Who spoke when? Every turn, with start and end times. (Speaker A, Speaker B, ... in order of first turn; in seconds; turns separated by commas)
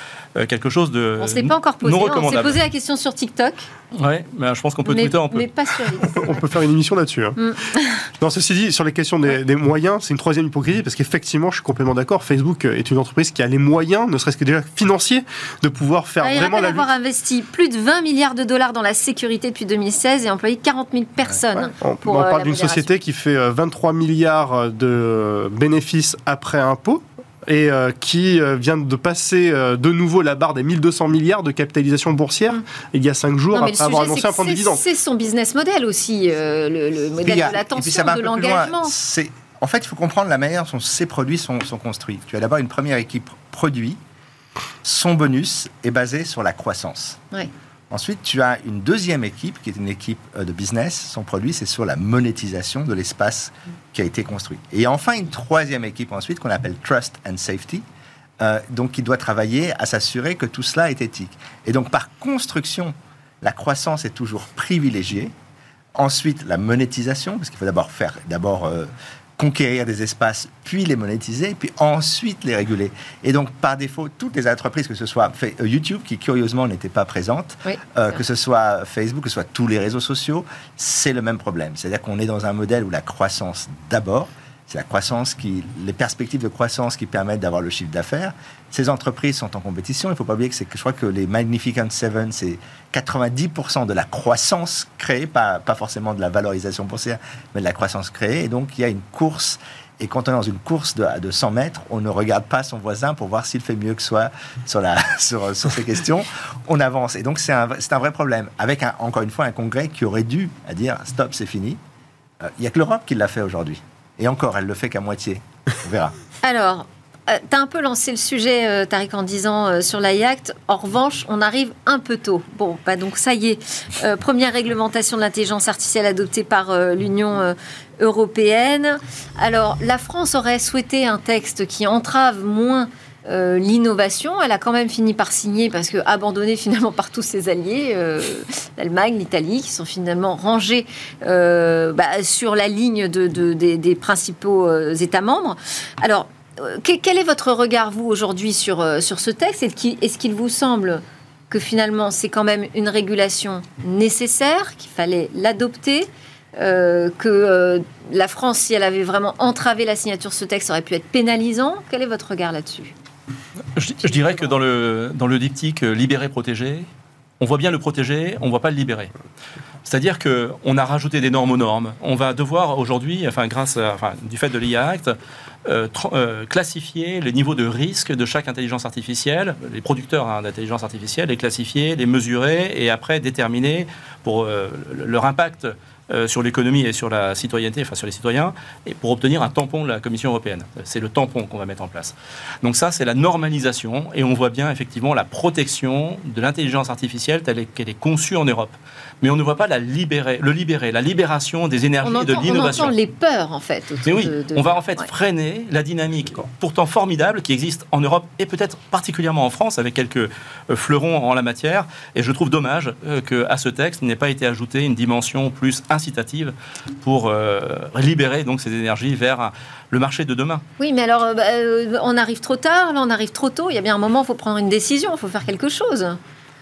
Speaker A: 0.3-2.6, Speaker B: 1.2-3.7, Speaker A: 3.9-5.5, Speaker B: 4.8-6.4, Speaker C: 6.1-7.4, Speaker B: 7.4-8.0, Speaker C: 8.2-16.9, Speaker B: 16.2-22.9, Speaker C: 21.5-34.8, Speaker B: 33.5-38.9, Speaker D: 37.2-44.0, Speaker D: 44.8-47.2, Speaker D: 47.9-57.8, Speaker D: 58.4-65.3, Speaker D: 66.0-111.8, Speaker D: 112.4-116.1, Speaker B: 116.4-162.9, Speaker A: 163.7-166.9, Speaker A: 167.4-169.1, Speaker A: 169.8-202.9, Speaker B: 202.0-205.1, Speaker A: 204.1-220.6, Speaker B: 220.8-226.2